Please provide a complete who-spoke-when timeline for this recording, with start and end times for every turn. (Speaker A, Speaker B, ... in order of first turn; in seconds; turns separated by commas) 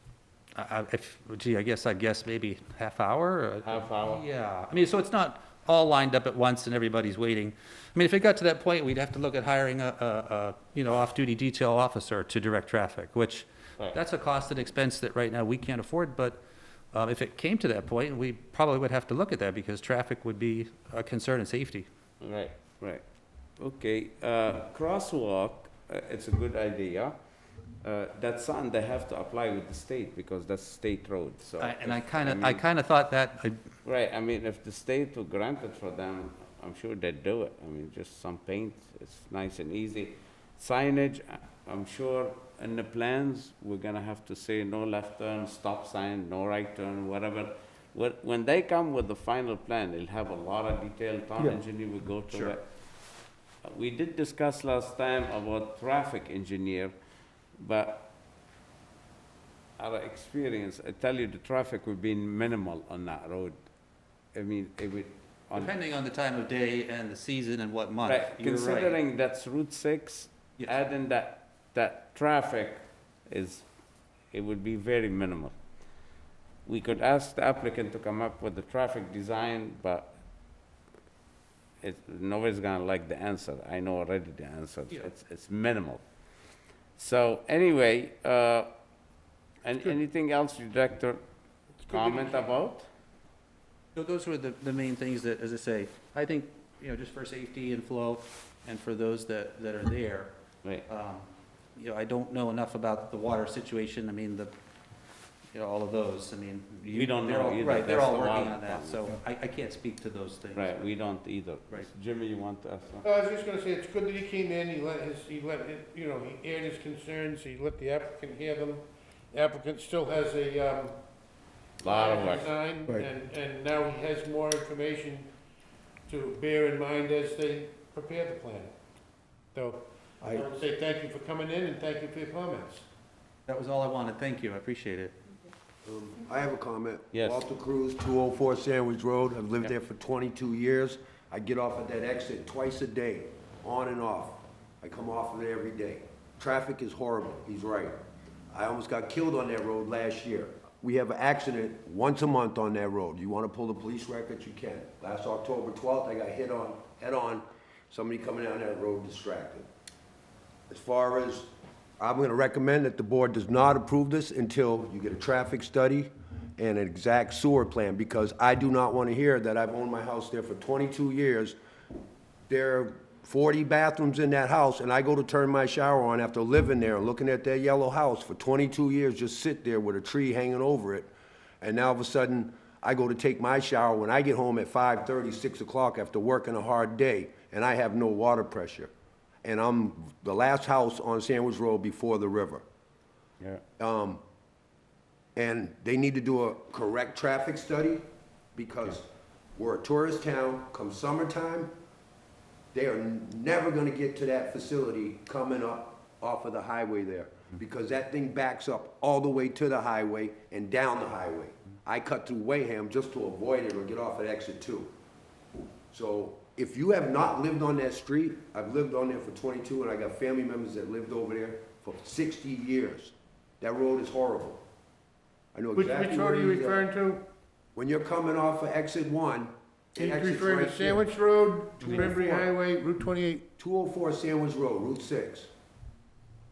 Speaker A: 0.6-16.4, Speaker B: 3.6-4.2, Speaker A: 16.9-21.9, Speaker B: 22.2-23.0, Speaker B: 23.6-27.2, Speaker B: 27.8-32.6, Speaker A: 31.6-33.6, Speaker B: 33.8-52.7, Speaker B: 53.6-56.9, Speaker B: 57.5-58.1, Speaker B: 59.8-63.6, Speaker B: 64.3-65.7, Speaker A: 65.5-69.0, Speaker B: 68.0-73.7, Speaker B: 74.3-75.5, Speaker B: 76.7-80.1, Speaker B: 81.8-86.0, Speaker B: 87.0-88.7, Speaker B: 89.6-91.2, Speaker C: 91.8-92.5, Speaker B: 91.9-92.9, Speaker A: 93.9-100.3, Speaker A: 100.9-104.5, Speaker A: 105.5-110.9, Speaker B: 106.9-109.1, Speaker B: 110.5-113.0, Speaker C: 113.0-120.9, Speaker B: 121.8-122.5, Speaker C: 121.8-125.3, Speaker C: 126.1-128.7, Speaker C: 129.5-132.8, Speaker A: 133.5-135.2, Speaker D: 135.8-148.0, Speaker B: 137.1-137.4, Speaker D: 148.5-159.7, Speaker D: 160.7-171.6, Speaker D: 172.5-181.1, Speaker D: 181.6-188.9, Speaker D: 189.4-192.6, Speaker D: 193.8-194.2, Speaker D: 195.3-198.0, Speaker D: 198.5-201.7, Speaker D: 202.7-214.9, Speaker D: 215.9-224.6, Speaker D: 225.5-226.9, Speaker C: 225.8-227.2, Speaker D: 227.8-231.0, Speaker C: 229.9-233.5, Speaker D: 231.8-232.5, Speaker D: 233.6-235.5